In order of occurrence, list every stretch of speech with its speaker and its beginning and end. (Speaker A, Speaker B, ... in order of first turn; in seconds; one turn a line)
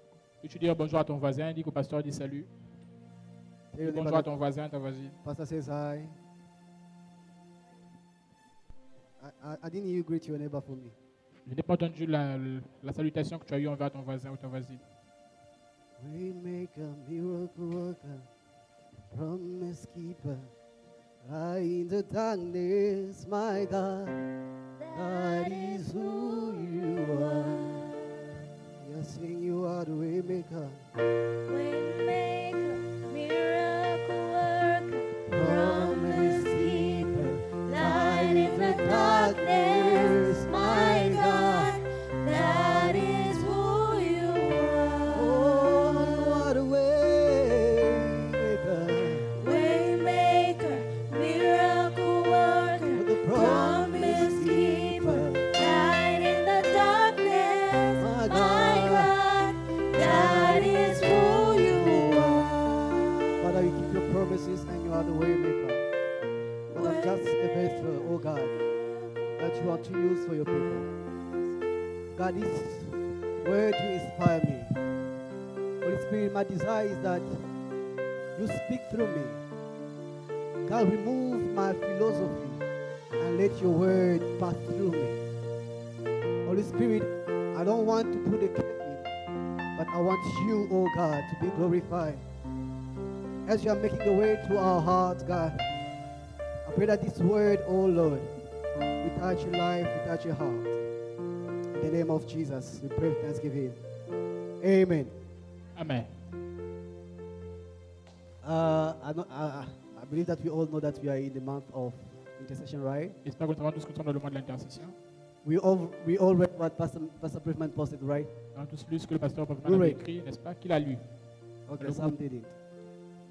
Speaker A: 0.4-2.5
Speaker B: 3.7-4.3
Speaker A: 3.8-5.2
Speaker B: 5.2-6.2
Speaker B: 9.2-10.9
Speaker A: 11.5-14.8
Speaker B: 16.0-18.3
Speaker B: 19.1-20.5
Speaker B: 21.2-24.2
Speaker C: 24.8-28.2
Speaker B: 24.9-27.9
Speaker B: 28.8-30.8
Speaker C: 31.5-46.1
Speaker B: 35.3-41.8
Speaker B: 42.3-43.4
Speaker B: 45.1-49.4
Speaker C: 49.4-62.5
Speaker B: 52.9-55.5
Speaker B: 58.0-59.1
Speaker B: 59.9-62.5
Speaker B: 63.4-65.9
Speaker B: 66.7-68.5
Speaker C: 66.7-69.8
Speaker B: 69.4-70.9
Speaker B: 72.1-74.8
Speaker B: 75.8-77.4
Speaker B: 78.4-79.4
Speaker B: 80.6-82.6
Speaker B: 83.2-85.2
Speaker B: 86.4-89.1
Speaker B: 89.8-92.2
Speaker B: 93.5-95.6
Speaker B: 96.6-98.3
Speaker B: 99.0-100.8
Speaker B: 101.8-103.8
Speaker B: 104.6-105.1
Speaker A: 105.8-106.1
Speaker B: 108.4-113.2
Speaker A: 113.2-115.0
Speaker B: 115.4-118.3
Speaker A: 118.5-121.0
Speaker B: 119.6-120.0
Speaker B: 121.7-122.5
Speaker A: 121.8-122.2